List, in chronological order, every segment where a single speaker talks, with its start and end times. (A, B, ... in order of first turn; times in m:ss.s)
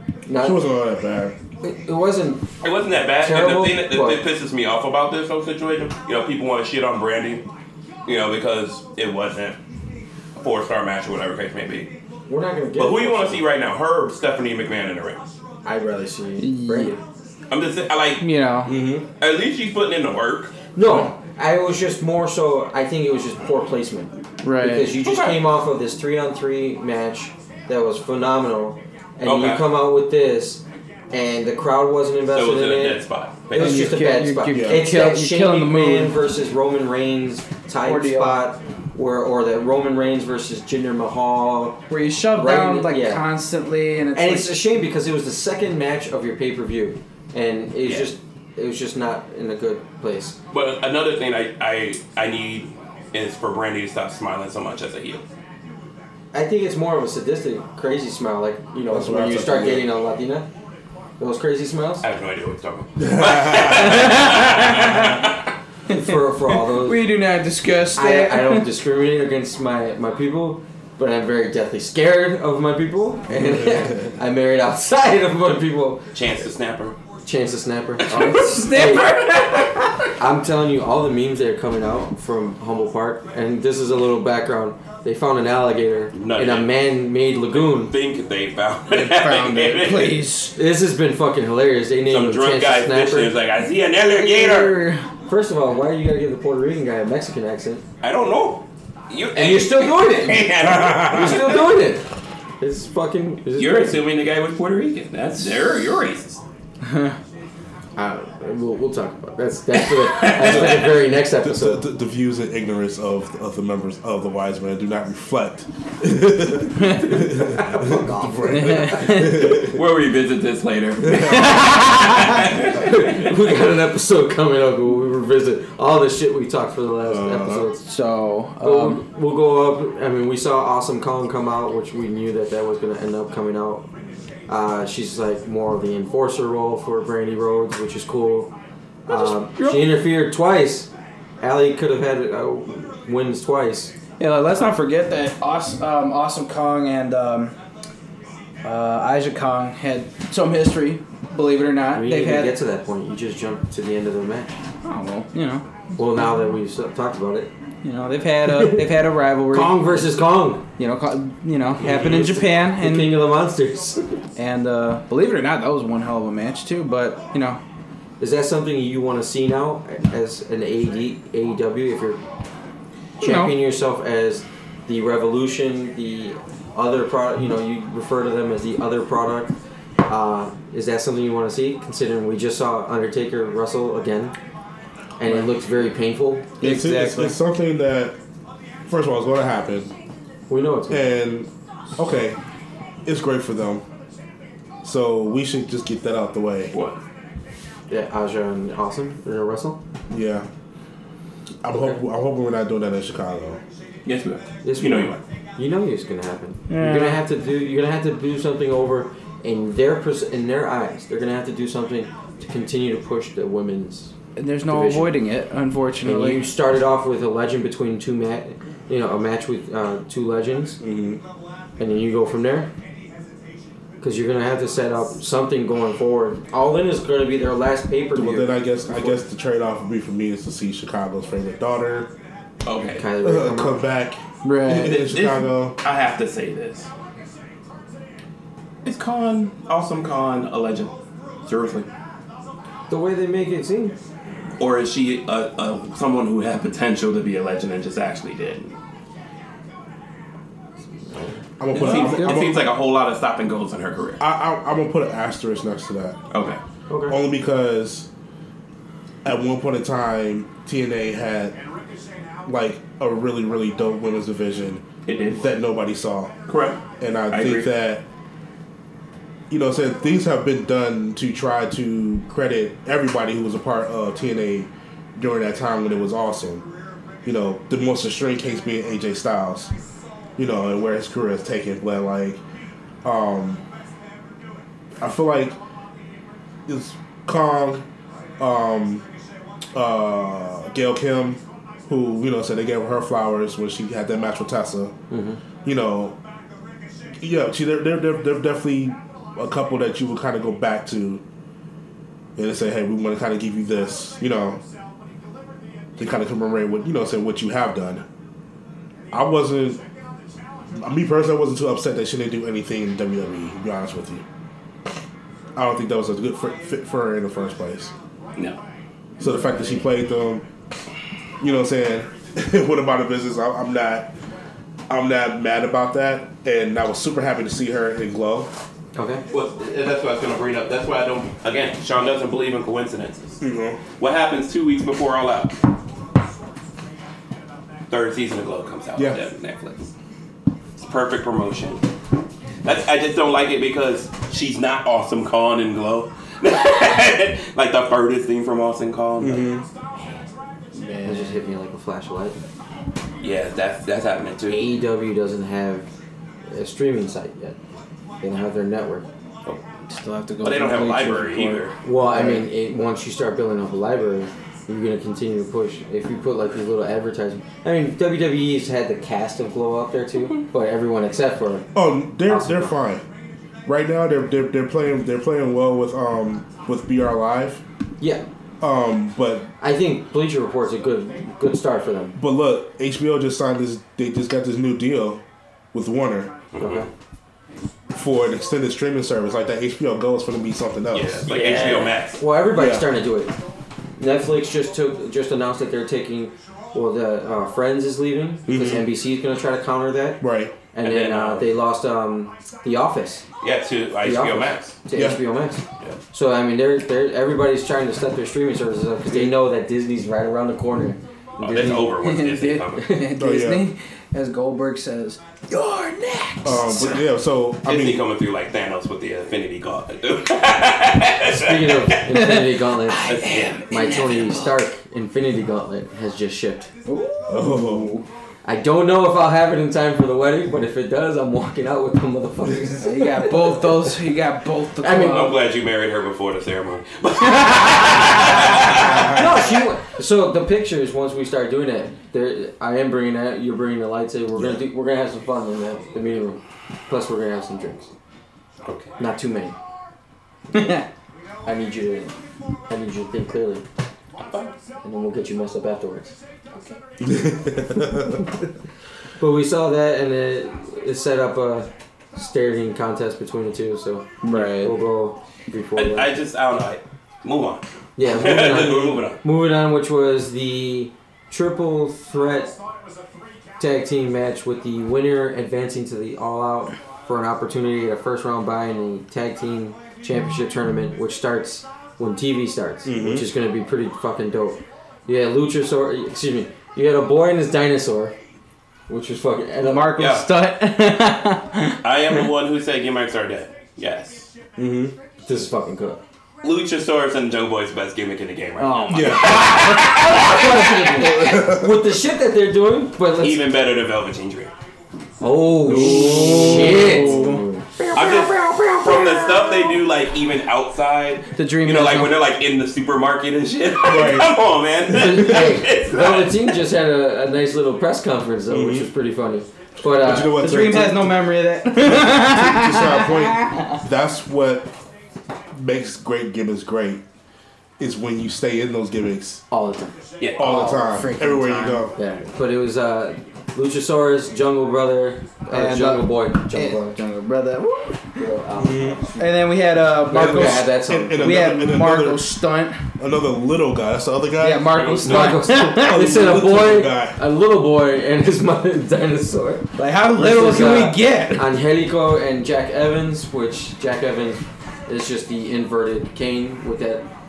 0:00.2-0:00.6 A
0:00.4-0:01.3 B
0:01.6-0:02.5 A
0:02.6-0:07.4 C
0:03.2-0:04.2 A
0:08.0-0:09.6 C
0:10.4-0:11.9 C
0:12.3-0:13.4 A
0:12.8-0:15.3 C
0:15.6-0:17.0 A
0:16.4-0:16.9 D
0:17.5-0:18.3 C
0:18.2-0:18.8 D
0:18.6-0:19.0 B
0:19.2-0:20.5 C
0:20.7-0:43.2 A
0:24.4-0:24.9 D
0:25.0-0:25.4 C
0:29.2-0:29.6 C
0:32.3-0:34.0 C
0:33.6-0:36.2 D
0:34.5-0:34.9 B
0:37.8-0:38.4 D
0:41.9-0:44.6 D
0:44.1-0:50.3 A
0:50.5-0:55.2 C
0:56.3-1:00.5 A
0:58.9-0:59.9 B
1:01.2-1:02.0 A
1:02.0-1:05.3 C
1:03.0-1:03.8 B
1:03.6-1:05.2 D
1:05.9-1:08.7 D
1:05.9-1:07.0 A
1:07.9-1:16.0 A
1:13.3-1:14.0 B
1:16.1-1:17.0 C
1:17.2-1:19.2 A
1:18.1-1:20.1 D
1:20.2-1:27.9 A
1:26.1-1:26.7 C
1:27.5-1:30.2 C
1:28.9-1:30.6 D
1:30.5-1:33.3 A
1:32.1-1:34.9 C
1:34.1-1:35.1 D
1:35.3-1:37.8 A
1:38.0-1:41.7 C
1:39.3-1:42.0 A
1:40.7-1:41.1 B
1:42.6-1:44.0 A
1:43.5-1:46.4 C
1:46.8-1:47.2 D
1:48.0-1:51.8 A
1:50.0-1:50.9 C
1:50.4-1:59.8 B
1:56.8-1:57.1 D
1:57.2-1:59.2 A
1:58.5-1:59.6 D
1:59.6-2:03.3 C
2:01.0-2:01.6 B
2:01.1-2:02.2 D
2:02.7-2:07.8 A
2:07.0-2:07.7 B
2:07.8-2:09.0 D
2:08.6-2:13.9 A
2:14.5-2:18.5 A
2:19.1-2:20.9 A
2:19.1-2:20.0 D
2:21.4-2:23.9 A
2:24.2-2:27.5 D
2:28.6-2:32.6 D
2:31.9-2:34.5 A
2:34.8-2:35.6 D
2:36.0-2:37.5 A
2:37.8-2:40.0 D
2:38.5-2:38.9 A
2:39.5-2:40.6 A
2:40.8-2:43.1 D
2:41.8-2:42.4 C
2:41.9-2:44.2 A
2:44.4-2:47.6 D
2:48.2-2:52.2 A
2:53.2-2:53.5 D
2:53.2-2:59.5 A
3:00.0-3:04.3 A
3:05.2-3:06.5 A
3:06.6-3:07.3 D
3:06.6-3:08.2 B
3:08.9-3:09.9 B
3:10.5-3:11.1 A
3:10.9-3:12.4 B
3:13.0-3:13.8 B
3:14.8-3:16.7 B
3:16.7-3:17.0 C
3:17.9-3:19.8 A
3:20.1-3:20.5 B
3:21.6-3:23.6 B
3:21.7-3:22.0 A
3:24.0-3:25.2 C
3:24.6-3:34.1 A
3:26.7-3:27.2 D
3:34.4-3:36.4 D
3:34.7-3:35.2 A
3:36.0-3:40.8 A
3:40.8-3:41.2 B
3:41.8-3:42.7 A
3:44.0-3:49.2 A
3:48.1-3:52.1 B
3:52.6-3:53.1 C
3:52.9-3:53.9 A
3:53.2-3:55.8 B
3:54.4-3:55.0 D
3:54.8-3:56.9 C
3:58.8-4:00.9 C
4:01.4-4:01.9 C
4:02.9-4:04.0 A
4:04.6-4:08.7 C
4:11.6-4:12.7 B
4:11.7-4:14.2 C
4:14.2-4:16.2 B
4:16.3-4:16.6 C
4:16.9-4:17.2 A
4:17.1-4:18.1 B
4:19.2-4:21.6 B
4:22.4-4:24.8 B
4:25.0-4:25.4 C
4:25.3-4:26.3 B
4:26.5-4:27.7 C
4:27.0-4:28.0 B
4:29.5-4:36.6 B
4:37.2-4:39.7 B
4:40.4-4:42.4 B
4:43.0-4:43.6 B
4:45.0-4:45.6 B
4:46.7-4:47.8 B
4:48.4-4:49.0 B
4:49.7-4:54.9 B
4:55.1-4:55.4 A
4:55.6-4:56.2 B
4:57.2-5:01.2 B
5:02.4-5:04.6 B
5:06.0-5:08.0 B
5:09.1-5:09.8 B
5:10.8-5:14.2 B
5:15.5-5:17.9 B
5:19.2-5:20.4 B
5:19.2-5:19.8 A
5:21.4-5:24.1 B
5:24.9-5:28.5 B
5:28.9-5:29.2 A
5:29.3-5:33.4 C
5:33.4-5:33.8 B
5:34.0-5:35.5 C
5:37.9-5:39.9 C
5:40.8-5:41.8 C
5:42.6-5:49.6 C
5:49.2-5:49.6 B
5:50.7-5:51.4 D
5:51.0-5:52.4 A
5:53.2-5:54.7 C
5:54.5-5:55.9 A
5:56.5-5:57.6 A
5:58.2-5:59.0 A
5:59.9-6:01.7 D
6:00.4-6:01.8 C
6:01.8-6:11.7 A
6:02.1-6:02.4 B
6:11.7-6:13.0 B
6:12.2-6:12.8 A
6:13.6-6:17.6 B
6:18.6-6:19.5 B
6:19.6-6:22.2 A
6:22.2-6:25.2 B
6:25.7-6:26.3 B
6:26.5-6:26.9 C
6:26.6-6:26.9 A
6:27.9-6:31.2 B
6:30.9-6:32.2 C
6:31.3-6:33.3 A
6:32.5-6:32.9 B
6:34.0-6:43.2 A
6:38.4-6:38.9 B
6:40.2-6:40.6 B
6:40.8-6:41.5 C
6:43.4-6:44.7 C
6:44.0-6:51.9 A
6:44.9-6:45.2 B
6:49.1-6:49.3 B
6:51.4-6:52.9 C
6:51.9-6:57.1 D
6:53.1-6:53.7 B
6:56.4-6:58.1 B
6:57.6-7:02.0 C
7:01.3-7:03.1 A
7:02.1-7:04.6 D
7:03.0-7:04.0 C
7:03.7-7:06.7 A
7:06.8-7:08.0 D
7:07.3-7:08.0 B
7:08.4-7:13.7 A
7:12.8-7:15.4 D
7:14.8-7:15.3 A
7:14.9-7:19.4 C
7:19.1-7:27.9 A
7:28.6-7:28.9 C
7:29.0-7:29.6 A
7:30.5-7:30.8 D
7:31.4-7:32.2 A
7:32.7-7:33.6 A
7:34.2-7:34.5 C
7:34.8-7:36.2 A
7:37.0-7:38.3 B
7:39.2-7:46.1 A
7:44.2-7:44.8 D
7:45.8-7:49.2 C
7:48.0-7:52.6 A
7:53.6-8:08.1 A
8:02.8-8:03.3 B
8:08.9-8:10.0 A
8:09.6-8:12.2 D
8:10.0-8:10.3 C
8:11.8-8:14.3 C
8:14.6-8:15.0 B
8:15.2-8:16.0 A
8:16.4-8:20.4 C
8:18.6-8:20.4 D
8:18.9-8:19.7 B
8:19.7-8:23.5 A
8:20.9-8:21.8 B
8:23.2-8:24.5 C
8:25.2-8:27.6 A
8:25.6-8:27.4 B
8:25.6-8:29.8 D
8:27.9-8:36.5 C
8:31.3-8:32.2 D
8:33.8-8:35.3 B
8:34.9-8:40.9 A
8:38.5-8:38.9 B
8:39.8-8:41.2 B
8:40.2-8:43.8 D
8:41.8-8:44.7 B
8:45.5-8:47.0 B
8:47.8-8:49.4 B
8:49.5-8:50.0 A
8:50.2-8:50.4 C
8:50.4-8:51.9 B
8:50.4-8:51.9 D
8:52.0-8:57.0 A
8:55.5-8:58.2 D
8:58.2-9:01.4 A
8:58.6-8:59.0 B
8:59.2-9:02.8 D
9:00.1-9:02.4 B
9:03.0-9:05.0 B
9:04.4-9:06.4 D
9:04.8-9:05.3 C
9:05.0-9:17.1 A
9:05.7-9:07.2 B
9:09.8-9:11.6 D